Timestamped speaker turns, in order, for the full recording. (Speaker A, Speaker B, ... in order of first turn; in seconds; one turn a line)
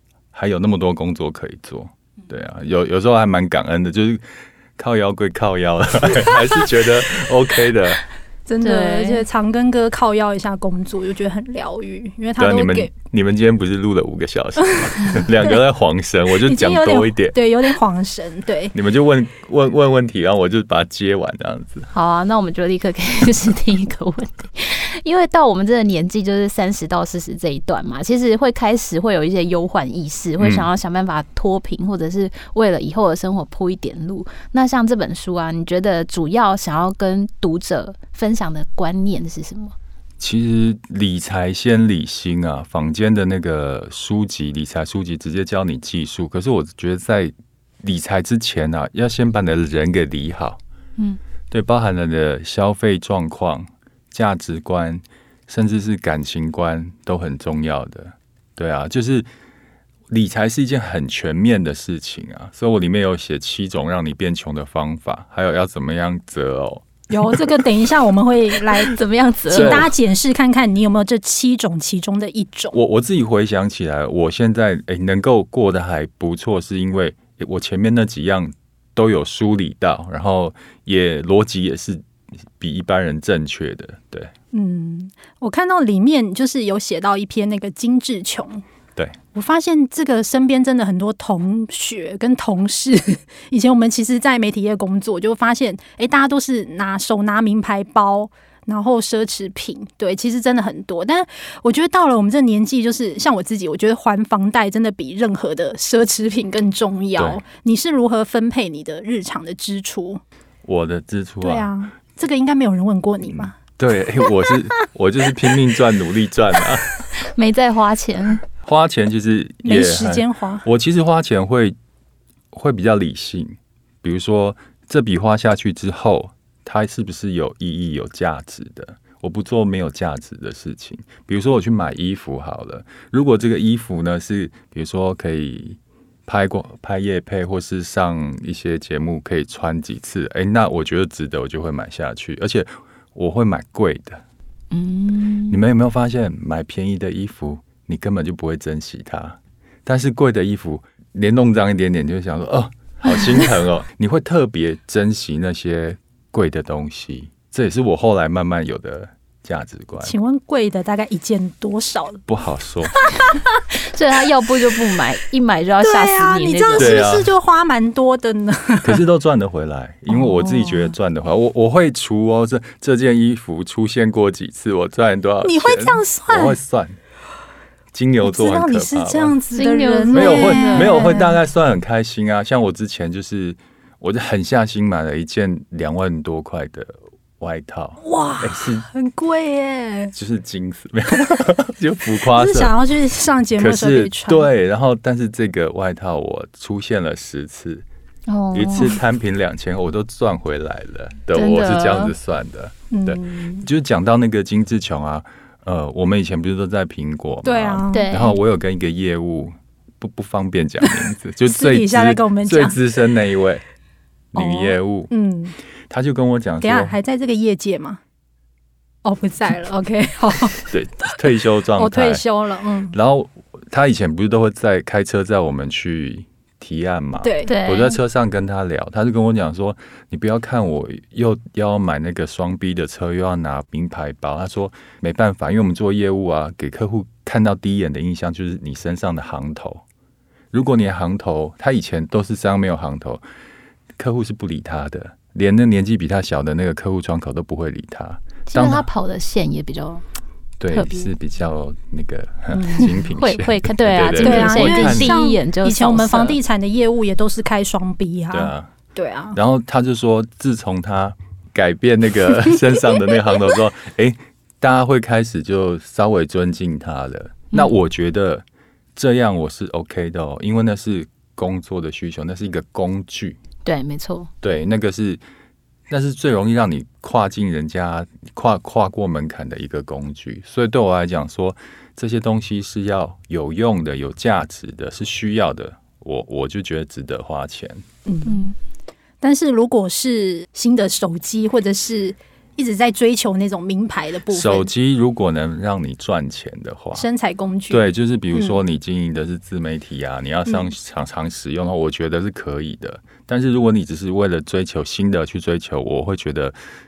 Speaker A: 0.3-4.2
Speaker A: 4.8-8.0
Speaker B: 8.5-12.9
Speaker C: 8.6-9.2
Speaker A: 12.4-17.4
Speaker B: 16.4-18.7
Speaker A: 18.7-21.9
Speaker C: 21.9-39.7
Speaker A: 30.4-30.7
Speaker A: 40.2-50.6
Speaker A: 51.5-59.3
Speaker A: 60.1-67.4
Speaker B: 67.1-68.9
Speaker C: 68.8-69.9
Speaker A: 69.5-69.9
Speaker B: 69.5-72.8
Speaker A: 72.7-82.0
Speaker A: 82.6-84.3
Speaker B: 84.5-88.6
Speaker B: 89.3-110.2
Speaker A: 107.2-107.4
Speaker A: 110.6-111.7
Speaker B: 111.4-113.6
Speaker A: 113.3-116.9
Speaker C: 117.2-118.4
Speaker A: 118.6-121.8
Speaker B: 119.6-120.7
Speaker A: 122.5-144.2
Speaker C: 144.7-145.6
Speaker A: 145.5-160.1
Speaker B: 160.0-162.2
Speaker A: 162.3-162.9
Speaker C: 163.8-167.0
Speaker B: 165.8-169.0
Speaker A: 166.8-167.3
Speaker A: 168.8-177.0
Speaker B: 170.1-170.9
Speaker B: 175.4-176.6
Speaker A: 177.9-179.3
Speaker B: 178.2-181.3
Speaker C: 179.5-181.2
Speaker A: 180.1-188.8
Speaker B: 188.0-190.1
Speaker A: 190.1-192.7
Speaker B: 192.3-194.5
Speaker A: 193.6-197.8
Speaker C: 198.3-198.9
Speaker A: 198.5-213.6
Speaker C: 201.3-202.1
Speaker B: 202.9-203.7
Speaker B: 207.4-208.1
Speaker C: 207.9-208.4
Speaker B: 211.4-212.8
Speaker A: 214.3-215.1
Speaker B: 214.3-215.6
Speaker A: 215.9-216.9
Speaker B: 216.6-218.0
Speaker B: 219.0-220.7
Speaker A: 220.7-222.2
Speaker B: 221.8-222.9
Speaker A: 222.9-239.8
Speaker B: 227.2-227.5
Speaker C: 227.4-228.0
Speaker A: 240.5-243.2
Speaker A: 244.0-248.9
Speaker C: 248.5-250.0
Speaker A: 250.6-255.1
Speaker C: 250.7-251.1
Speaker B: 252.5-252.9
Speaker C: 252.8-256.4
Speaker B: 254.1-259.4
Speaker A: 258.3-258.7
Speaker A: 259.3-268.4
Speaker A: 268.9-273.4
Speaker C: 273.6-274.3
Speaker A: 274.4-275.2
Speaker A: 275.9-287.8
Speaker B: 288.1-288.4
Speaker C: 288.2-288.5
Speaker B: 289.2-294.7
Speaker A: 294.3-297.1
Speaker B: 296.9-297.9
Speaker A: 297.7-306.6